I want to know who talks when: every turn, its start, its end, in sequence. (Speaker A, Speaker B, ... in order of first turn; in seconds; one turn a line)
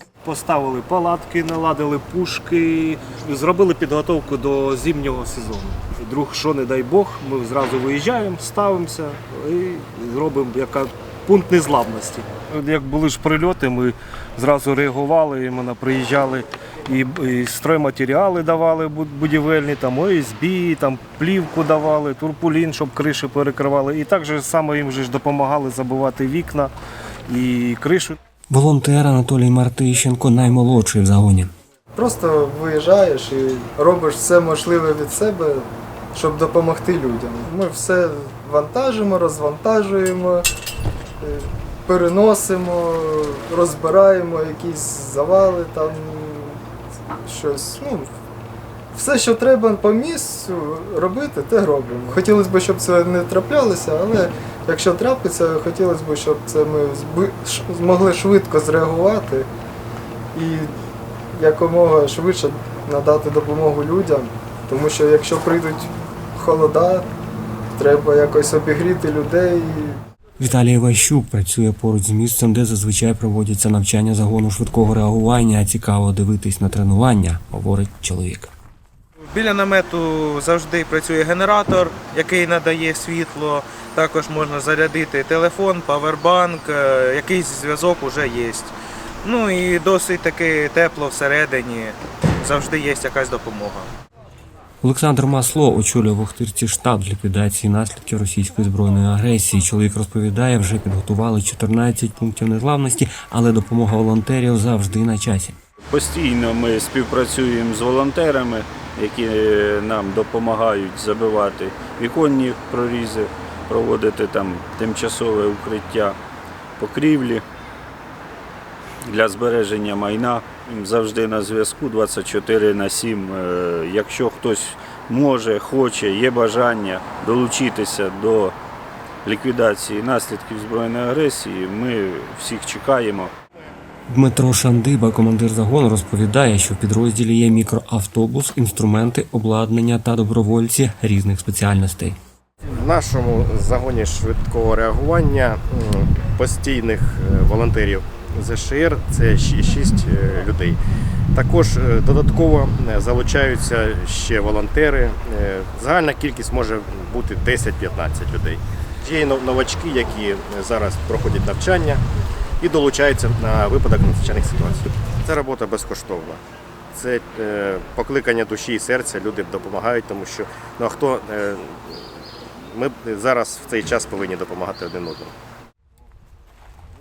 Speaker A: 0.2-26.7
Speaker A: 27.3-28.2
Speaker B: 28.5-31.5
Speaker C: 31.9-40.5
Speaker C: 41.2-46.6
Speaker C: 47.2-48.1
Speaker C: 48.9-59.5
Speaker C: 60.3-60.7
Speaker C: 61.3-67.1
Speaker C: 67.7-70.0
Speaker B: 70.4-78.5
Speaker D: 79.3-93.9
Speaker B: 94.8-105.5
Speaker E: 105.9-116.2
Speaker E: 116.8-117.4
Speaker E: 119.0-128.6
Speaker E: 129.2-133.3
Speaker B: 134.1-142.2
Speaker F: 142.7-150.8
Speaker F: 151.3-162.0
Speaker F: 162.6-166.4
Speaker F: 166.9-175.3